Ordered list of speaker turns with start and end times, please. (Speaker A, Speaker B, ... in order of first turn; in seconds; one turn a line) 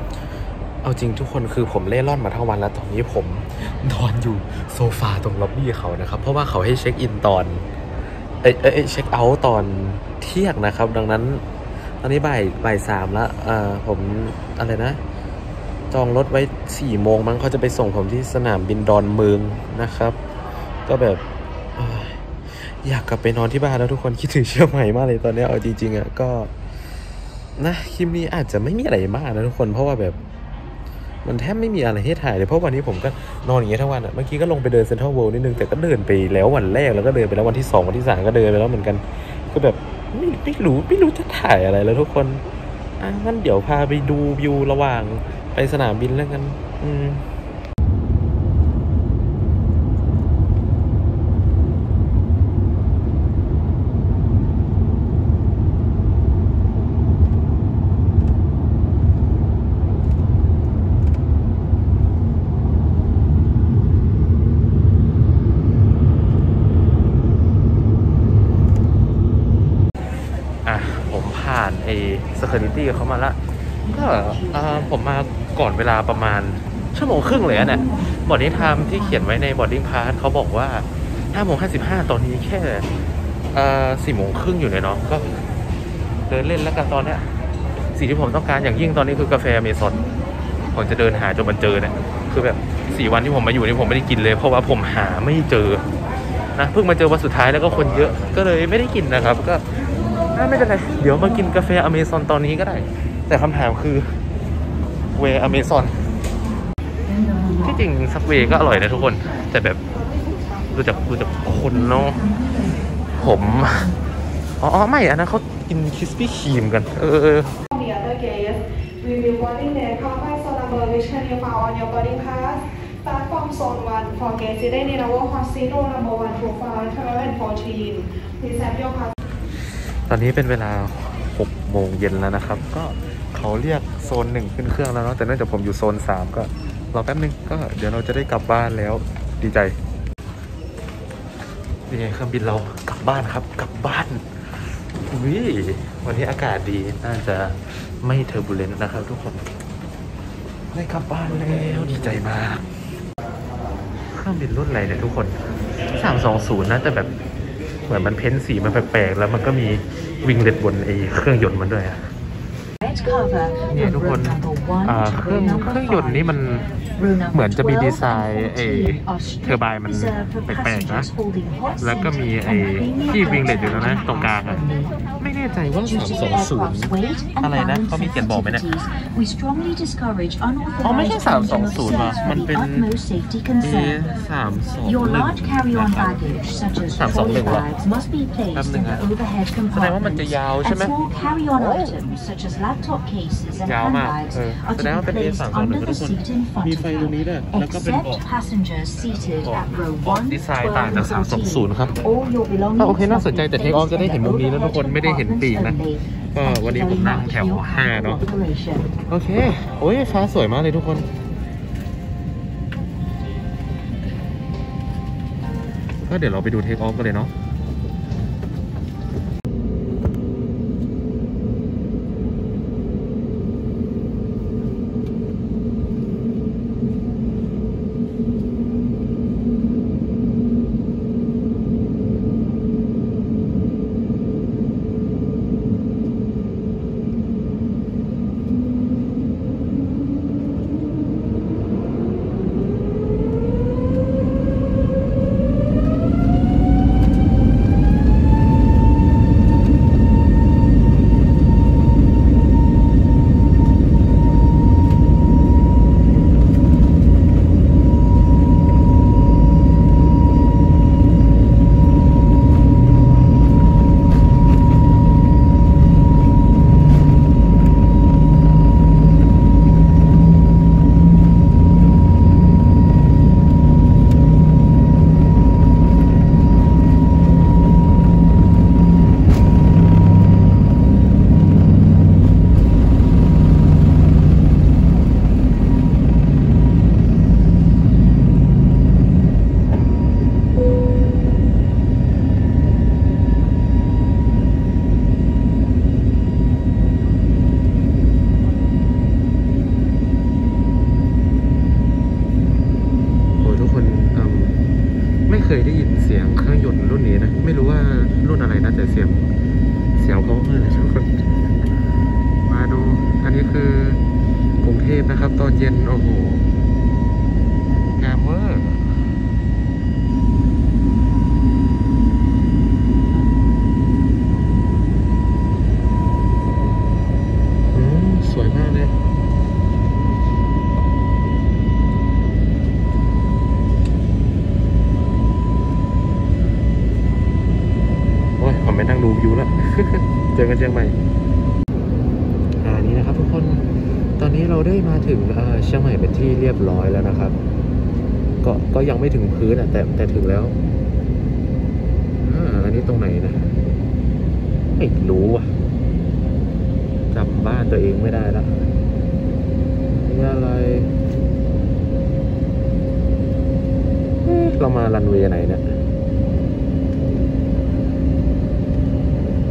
Speaker A: 0.8-7.7
Speaker A: 8.4-11.4
Speaker A: 12.0-15.0
Speaker A: 15.9-20.2
Speaker A: 20.9-21.2
Speaker A: 21.8-26.5
Speaker A: 27.6-30.2
Speaker A: 31.2-42.4
Speaker A: 43.0-47.2
Speaker A: 70.7-82.9
Speaker A: 83.5-85.4
Speaker A: 86.3-87.3
Speaker A: 87.9-90.0
Speaker A: 90.7-95.8
Speaker A: 96.5-99.7
Speaker A: 100.3-104.2
Speaker A: 105.2-106.0
Speaker B: 107.1-107.6
Speaker A: 107.5-109.8
Speaker A: 110.7-112.3
Speaker B: 112.3-112.8
Speaker A: 113.2-113.9
Speaker A: 114.6-117.6
Speaker C: 117.8-118.6
Speaker C: 119.1-129.1
Speaker A: 130.1-139.8
Speaker A: 141.9-144.4
Speaker A: 144.9-149.5
Speaker A: 150.7-152.7
Speaker A: 154.1-155.4
Speaker A: 155.9-157.1
Speaker A: 157.9-162.1
Speaker B: 162.8-165.8
Speaker A: 163.7-166.7
Speaker B: 167.0-167.6
Speaker A: 167.3-171.1
Speaker B: 169.0-171.8
Speaker A: 171.8-174.7
Speaker B: 172.8-174.9
Speaker A: 175.2-178.7
Speaker B: 176.7-182.1
Speaker A: 180.8-182.9
Speaker B: 182.6-184.0
Speaker A: 183.6-187.7
Speaker B: 185.4-190.1
Speaker A: 188.5-189.1
Speaker A: 189.7-191.0
Speaker B: 190.9-194.1
Speaker A: 191.5-191.9
Speaker A: 193.7-198.2
Speaker B: 194.8-196.6
Speaker B: 197.8-200.4
Speaker A: 199.4-202.0
Speaker B: 201.0-201.4
Speaker B: 202.0-208.9
Speaker A: 202.8-205.8
Speaker A: 206.3-208.2
Speaker A: 209.1-211.1
Speaker A: 216.0-217.3
Speaker A: 303.4-304.6
Speaker A: 305.3-309.3
Speaker A: 309.9-311.8
Speaker A: 312.4-314.0
Speaker A: 314.6-316.5
Speaker A: 318.0-319.0
Speaker A: 327.7-328.9
Speaker A: 338.4-341.0
Speaker A: 342.6-343.7
Speaker A: 344.2-347.4
Speaker A: 348.4-350.6
Speaker A: 352.2-353.5
Speaker A: 354.8-355.5
Speaker A: 357.1-358.7
Speaker A: 359.9-360.9
Speaker A: 364.2-365.7